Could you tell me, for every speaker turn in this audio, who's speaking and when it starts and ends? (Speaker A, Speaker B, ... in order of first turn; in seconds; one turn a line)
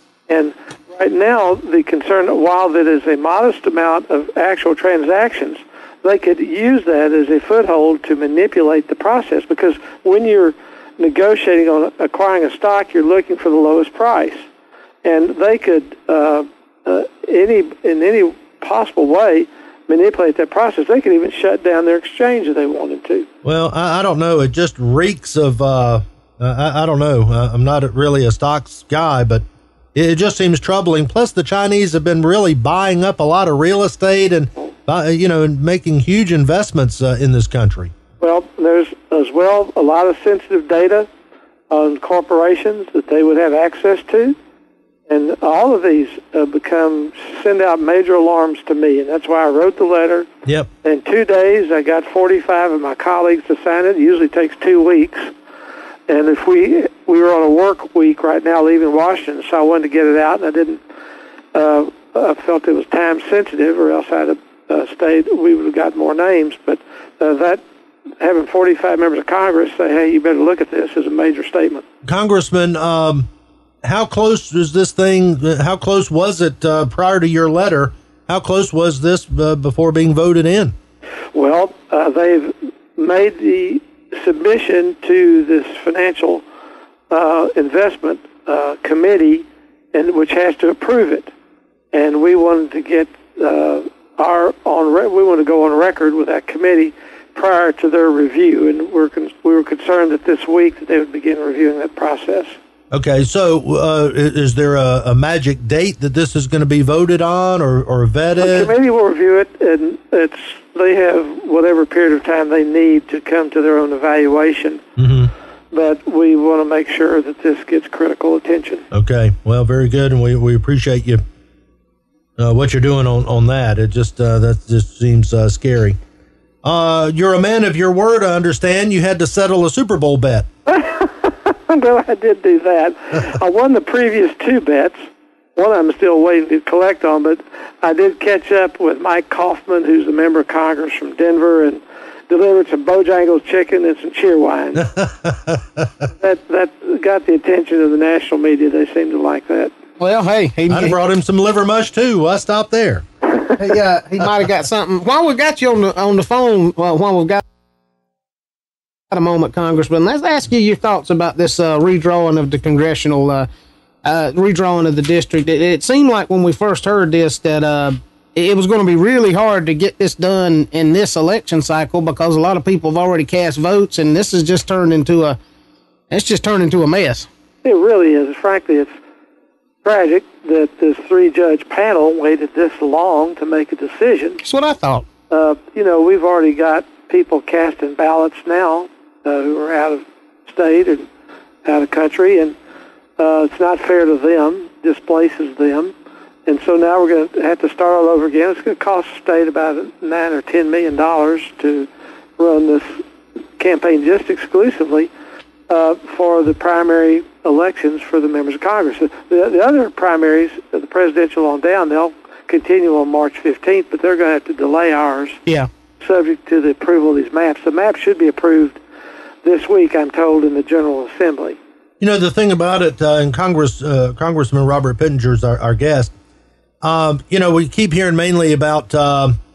Speaker A: 0.3-14.4
Speaker A: 15.0-23.3
Speaker B: 23.4-29.4
Speaker B: 29.9-37.9
Speaker A: 38.2-41.1
Speaker A: 41.7-44.4
Speaker A: 45.1-50.3
Speaker A: 50.8-55.3
Speaker A: 56.1-60.8
Speaker A: 61.5-67.6
Speaker A: 68.2-71.8
Speaker B: 72.0-73.3
Speaker B: 73.8-80.7
Speaker A: 81.3-86.4
Speaker A: 87.1-91.3
Speaker A: 91.9-102.5
Speaker B: 102.9-108.7
Speaker A: 108.4-114.8
Speaker B: 115.0-115.3
Speaker A: 115.7-118.9
Speaker B: 118.9-121.2
Speaker B: 122.4-126.0
Speaker B: 126.6-130.5
Speaker A: 130.7-135.0
Speaker A: 135.6-144.9
Speaker B: 144.9-145.6
Speaker A: 146.2-149.7
Speaker C: 150.0-151.0
Speaker B: 150.7-153.1
Speaker C: 153.6-157.4
Speaker C: 159.1-163.5
Speaker C: 164.0-175.4
Speaker C: 176.1-177.3
Speaker A: 177.6-178.9
Speaker A: 179.8-184.4
Speaker C: 184.4-185.1
Speaker A: 185.3-191.0
Speaker A: 191.7-192.6
Speaker A: 193.2-195.9
Speaker A: 196.5-203.0
Speaker A: 203.6-205.1
Speaker A: 205.7-215.4
Speaker A: 216.0-218.8
Speaker A: 219.4-221.6
Speaker B: 222.0-226.1
Speaker B: 226.8-229.3